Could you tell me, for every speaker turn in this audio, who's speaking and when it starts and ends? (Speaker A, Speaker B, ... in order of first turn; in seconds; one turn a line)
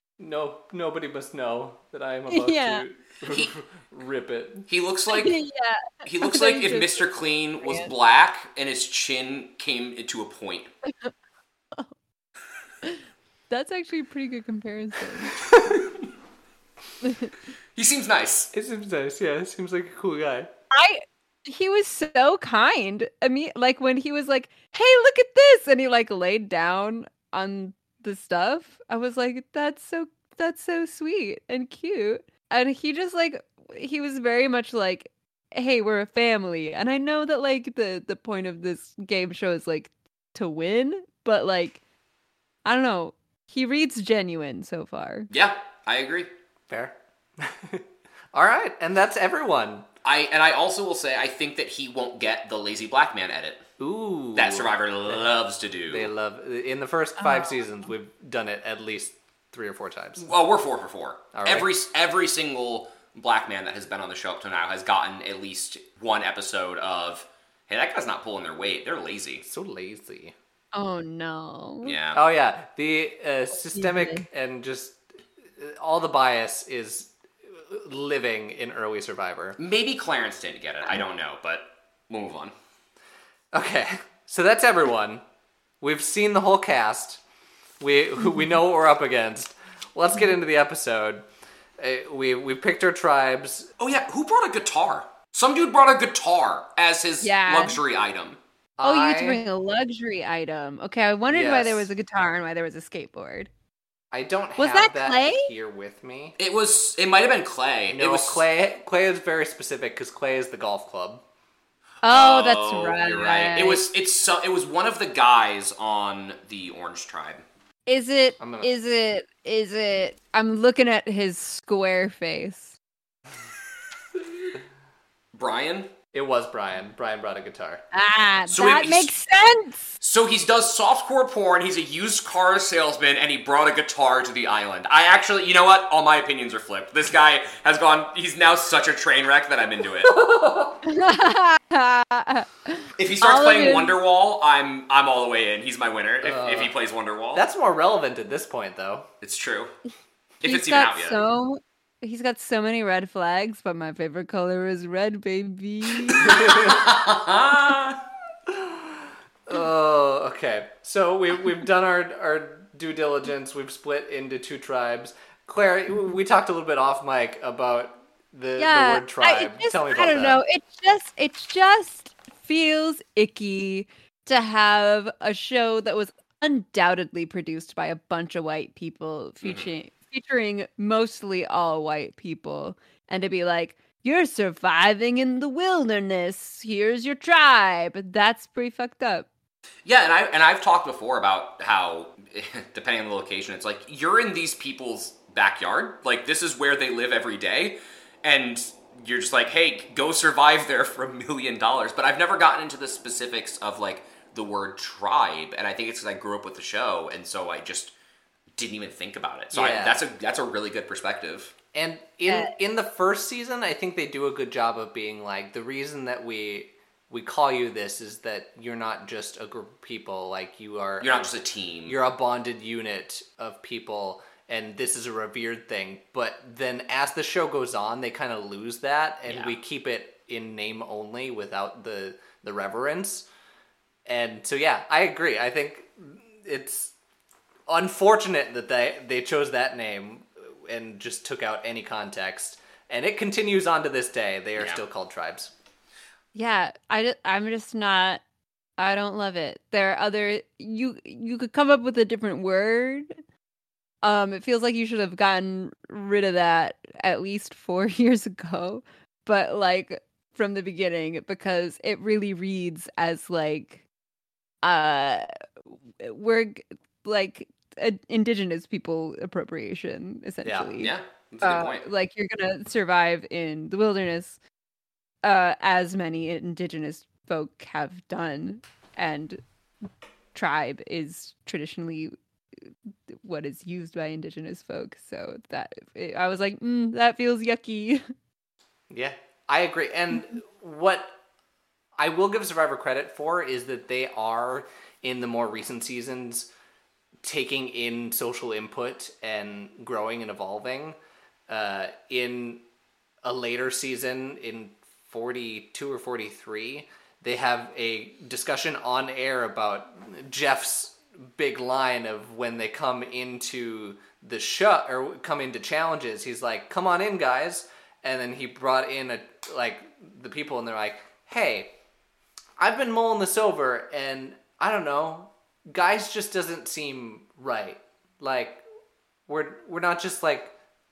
Speaker A: 0.2-4.7
Speaker B: 2.3-2.8
Speaker C: 3.2-3.5
Speaker C: 4.7-5.4
Speaker B: 5.1-7.9
Speaker C: 6.0-10.7
Speaker B: 13.5-15.4
Speaker B: 17.0-17.3
Speaker C: 17.7-18.5
Speaker A: 18.5-20.5
Speaker B: 20.7-41.8
Speaker B: 42.6-45.3
Speaker C: 45.3-46.3
Speaker A: 46.7-49.9
Speaker C: 50.0-53.6
Speaker A: 53.8-55.3
Speaker C: 54.3-56.1
Speaker A: 55.9-60.3
Speaker B: 57.2-57.6
Speaker C: 60.2-69.4
Speaker A: 61.3-61.7
Speaker A: 69.4-70.3
Speaker B: 70.7-72.0
Speaker C: 71.8-72.2
Speaker A: 72.1-75.0
Speaker B: 73.7-74.2
Speaker A: 75.6-79.6
Speaker C: 79.6-82.5
Speaker A: 83.5-85.2
Speaker A: 85.8-87.2
Speaker A: 87.8-91.2
Speaker A: 91.8-93.7
Speaker C: 93.8-98.4
Speaker B: 97.2-97.8
Speaker A: 98.8-99.4
Speaker B: 98.8-103.5
Speaker A: 101.3-101.9
Speaker A: 104.1-106.4
Speaker B: 104.6-105.5
Speaker C: 106.4-108.4
Speaker A: 107.9-111.2
Speaker B: 112.0-113.8
Speaker C: 112.0-117.4
Speaker B: 117.9-122.8
Speaker A: 118.4-118.7
Speaker C: 125.3-125.9
Speaker A: 126.1-127.8
Speaker B: 127.9-129.9
Speaker C: 128.5-129.1
Speaker C: 130.0-140.1
Speaker A: 140.0-140.8
Speaker B: 140.8-143.9
Speaker C: 143.0-147.4
Speaker A: 146.2-146.7
Speaker A: 147.3-149.1
Speaker C: 149.2-149.7
Speaker C: 150.4-151.2
Speaker B: 150.4-156.6
Speaker C: 156.1-158.0
Speaker A: 156.2-156.8
Speaker A: 158.5-170.4
Speaker B: 168.6-189.3
Speaker C: 179.4-179.7
Speaker C: 189.8-207.9
Speaker C: 208.6-211.5
Speaker A: 209.5-210.0
Speaker A: 211.7-221.3
Speaker C: 221.0-222.0
Speaker A: 221.9-233.3
Speaker C: 229.2-229.5
Speaker A: 234.1-236.9
Speaker A: 237.7-245.5
Speaker B: 246.3-248.2
Speaker B: 248.8-253.1
Speaker B: 254.0-263.8
Speaker B: 264.6-265.2
Speaker B: 266.0-274.4
Speaker A: 270.4-270.7
Speaker C: 270.8-271.9
Speaker B: 275.2-279.4
Speaker B: 280.3-282.1
Speaker B: 283.1-288.0
Speaker A: 288.9-291.1
Speaker A: 292.0-296.5
Speaker A: 297.2-301.0
Speaker A: 301.5-302.6
Speaker A: 303.2-321.7
Speaker A: 322.6-328.6
Speaker A: 329.3-330.5